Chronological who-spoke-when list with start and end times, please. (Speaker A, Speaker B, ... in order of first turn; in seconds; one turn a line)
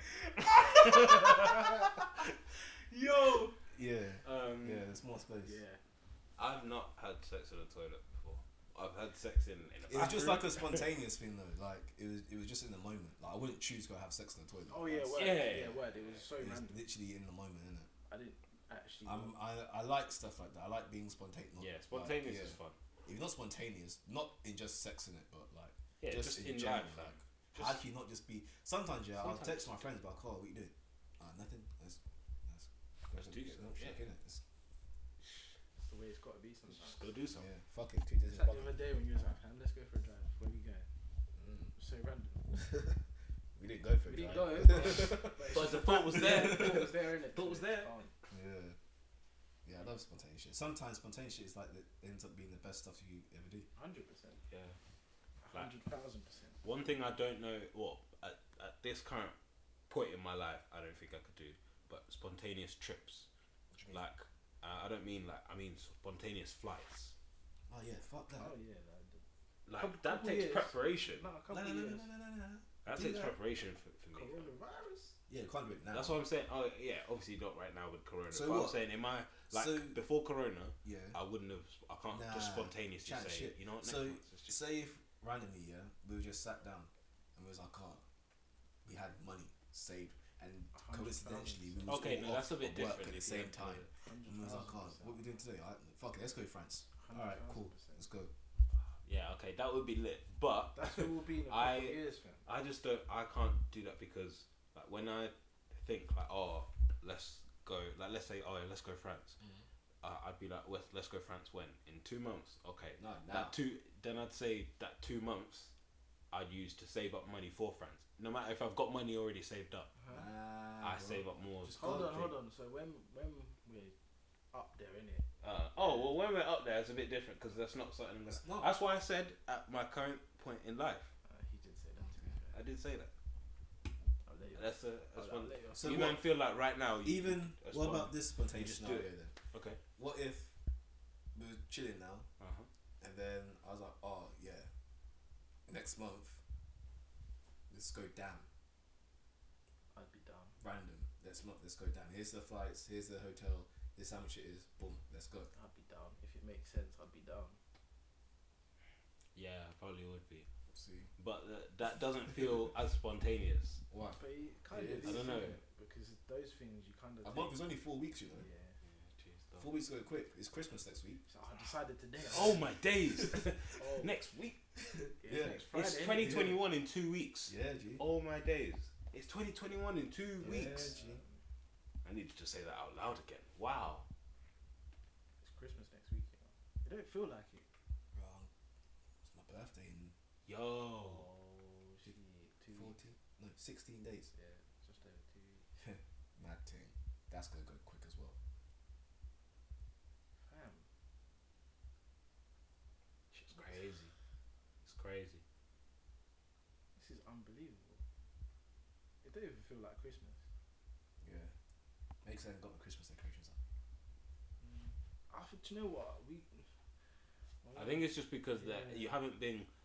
Speaker A: 0.5-2.0
Speaker B: 0.5-1.9
Speaker A: 2.9-3.5
Speaker B: 3.1-5.6
Speaker A: 4.2-4.8
Speaker C: 5.4-5.8
Speaker A: 6.4-10.9
Speaker B: 9.9-17.9
Speaker C: 14.7-16.8
Speaker A: 15.2-15.8
Speaker C: 18.1-19.4
Speaker B: 19.0-34.4
Speaker A: 21.6-22.8
Speaker A: 26.0-27.6
Speaker A: 29.1-29.8
Speaker A: 33.1-34.0
Speaker C: 35.8-37.1
Speaker A: 36.7-37.5
Speaker B: 37.3-38.8
Speaker C: 38.3-40.9
Speaker B: 41.4-41.7
Speaker C: 41.7-42.6
Speaker B: 43.5-46.9
Speaker C: 44.0-48.1
Speaker A: 44.8-47.9
Speaker B: 48.3-48.8
Speaker B: 49.6-53.7
Speaker C: 53.8-54.4
Speaker A: 54.5-54.8
Speaker C: 55.4-56.6
Speaker A: 56.6-59.4
Speaker A: 59.9-63.3
Speaker B: 63.7-64.0
Speaker A: 63.9-67.1
Speaker B: 67.7-68.5
Speaker C: 68.3-69.2
Speaker A: 69.7-71.2
Speaker C: 69.8-72.1
Speaker B: 71.5-73.3
Speaker A: 72.8-74.5
Speaker C: 72.9-73.2
Speaker C: 74.1-75.2
Speaker B: 75.3-76.2
Speaker A: 75.9-84.6
Speaker B: 78.3-78.8
Speaker B: 79.5-80.0
Speaker B: 80.8-81.2
Speaker B: 82.1-88.0
Speaker B: 88.8-98.3
Speaker C: 90.7-92.1
Speaker A: 91.8-93.9
Speaker C: 94.0-95.2
Speaker C: 97.0-98.0
Speaker A: 99.0-109.4
Speaker C: 100.7-102.4
Speaker A: 110.0-115.7
Speaker B: 113.0-113.5
Speaker A: 116.3-119.9
Speaker B: 120.1-122.3
Speaker A: 120.8-122.3
Speaker C: 121.7-123.9
Speaker C: 124.5-125.2
Speaker A: 125.4-131.1
Speaker B: 128.3-128.7
Speaker C: 131.2-132.6
Speaker A: 132.5-133.1
Speaker C: 134.2-136.1
Speaker A: 134.5-139.8
Speaker B: 135.7-136.2
Speaker B: 137.0-139.3
Speaker B: 139.9-140.5
Speaker B: 141.3-142.3
Speaker A: 142.4-142.7
Speaker B: 143.0-144.7
Speaker B: 145.7-146.4
Speaker B: 147.7-148.5
Speaker C: 149.9-150.6
Speaker B: 150.6-155.5
Speaker C: 155.5-157.6
Speaker A: 159.3-160.5
Speaker B: 160.7-161.1
Speaker A: 161.2-163.8
Speaker B: 163.9-165.3
Speaker C: 164.1-167.7
Speaker A: 165.0-165.6
Speaker B: 167.2-168.5
Speaker C: 168.3-168.8
Speaker A: 168.8-169.8
Speaker B: 169.6-171.2
Speaker C: 171.3-172.7
Speaker A: 172.3-174.6
Speaker B: 173.1-173.4
Speaker C: 173.8-174.1
Speaker B: 174.8-176.6
Speaker C: 175.2-176.6
Speaker A: 175.7-180.9
Speaker B: 177.5-178.0
Speaker B: 180.4-181.2
Speaker C: 180.4-181.4
Speaker A: 182.0-184.1
Speaker C: 185.4-187.7
Speaker B: 188.1-188.5
Speaker B: 189.2-190.1
Speaker A: 190.4-191.3
Speaker C: 191.0-193.0
Speaker B: 192.7-194.3
Speaker C: 194.3-195.7
Speaker B: 195.8-198.4
Speaker C: 200.4-200.8
Speaker C: 203.3-203.7
Speaker A: 203.4-204.1
Speaker A: 204.8-205.4
Speaker C: 206.9-208.0
Speaker C: 209.2-210.4
Speaker B: 211.2-211.5
Speaker B: 212.2-213.6
Speaker C: 214.6-216.7
Speaker C: 217.6-219.1
Speaker A: 217.7-219.7